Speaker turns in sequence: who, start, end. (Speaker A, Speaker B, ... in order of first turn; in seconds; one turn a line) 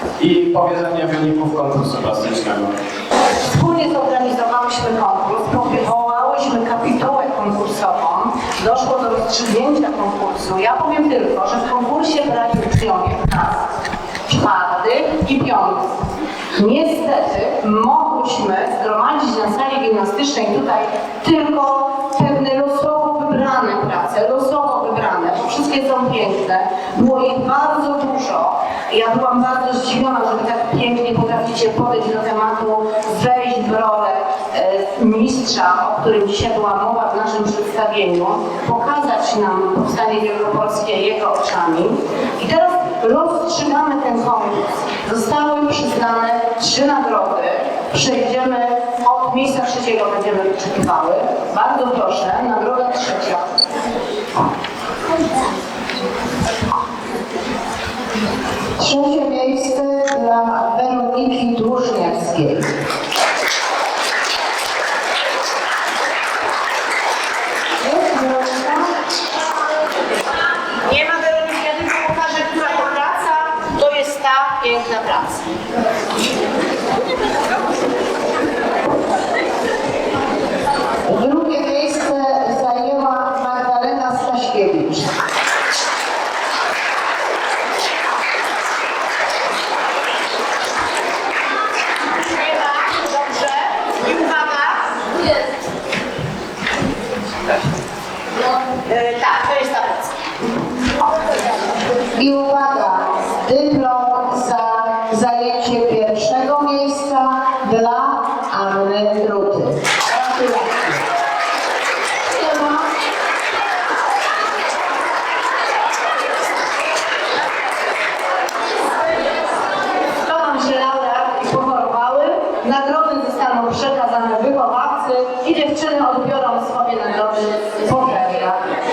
Speaker A: 0.2-2.7
Speaker B: 3.3-13.7
Speaker B: 14.3-16.0
Speaker B: 16.5-53.4
Speaker C: 58.8-62.7
Speaker C: 67.9-68.9
Speaker B: 70.7-75.4
Speaker C: 81.1-85.1
Speaker B: 92.3-95.0
Speaker B: 98.8-100.0
Speaker C: 102.2-111.0
Speaker B: 112.4-112.7
Speaker B: 120.2-128.6